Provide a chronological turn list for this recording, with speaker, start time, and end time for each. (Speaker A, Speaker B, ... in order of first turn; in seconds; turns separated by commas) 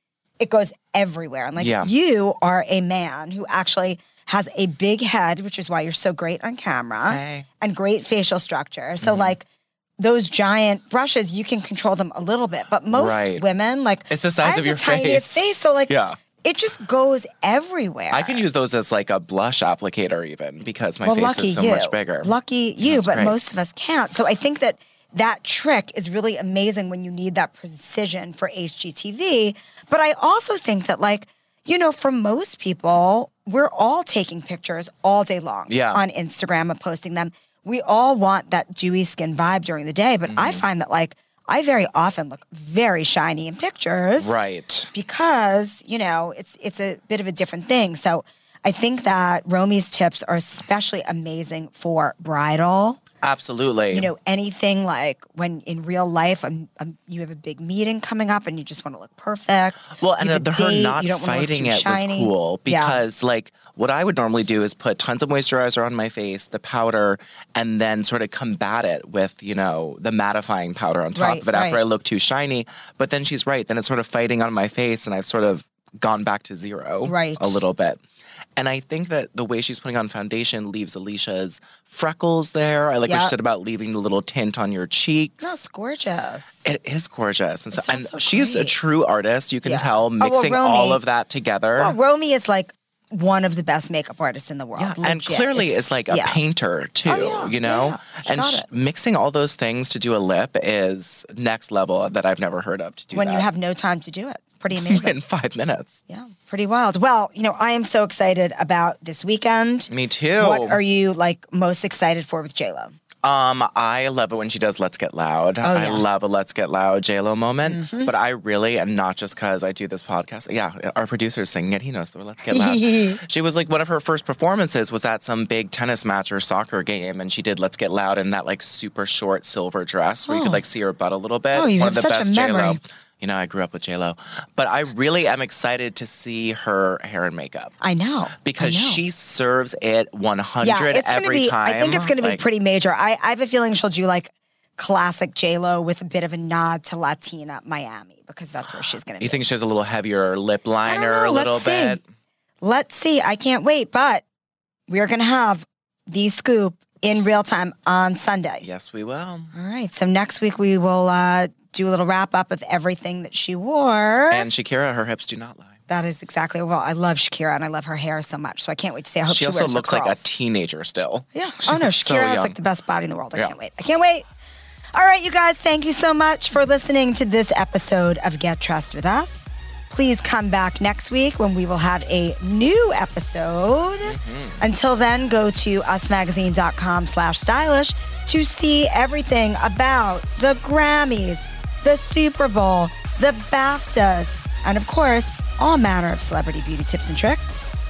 Speaker A: 0.4-9.4, Speaker B: 1.6-1.9, Speaker B: 7.1-7.5, Speaker B: 9.0-9.3, Speaker A: 10.0-18.4, Speaker B: 12.9-13.4, Speaker B: 14.1-16.2, Speaker B: 18.1-23.4, Speaker A: 21.0-44.4, Speaker B: 35.7-36.0, Speaker B: 40.3-40.6, Speaker B: 44.2-44.9, Speaker A: 44.9-53.0, Speaker B: 53.2-54.1, Speaker A: 53.9-63.0, Speaker B: 60.0-78.0, Speaker A: 71.2-71.8, Speaker A: 77.1-77.6, Speaker B: 78.6-85.6, Speaker A: 83.1-83.3, Speaker A: 85.4-86.7, Speaker B: 86.6-92.0, Speaker A: 87.7-88.8, Speaker A: 89.6-91.0, Speaker A: 91.8-96.4, Speaker B: 94.8-103.5, Speaker A: 97.1-98.7, Speaker A: 103.1-105.2, Speaker B: 104.7-106.0, Speaker A: 106.1-113.0, Speaker B: 109.9-110.8, Speaker B: 113.2-137.7, Speaker A: 115.6-116.0, Speaker A: 117.6-118.1, Speaker A: 122.5-123.2, Speaker A: 130.3-130.6, Speaker A: 131.5-132.8, Speaker A: 137.8-139.0, Speaker B: 138.4-142.4, Speaker A: 140.6-149.4, Speaker B: 149.2-152.0, Speaker A: 150.8-152.0, Speaker A: 152.6-154.2, Speaker A: 154.9-158.7, Speaker B: 158.6-159.5, Speaker A: 159.5-164.5, Speaker B: 164.3-165.8, Speaker A: 165.9-170.3, Speaker B: 169.3-172.6, Speaker A: 171.3-174.3, Speaker A: 174.9-197.7, Speaker B: 184.0-184.6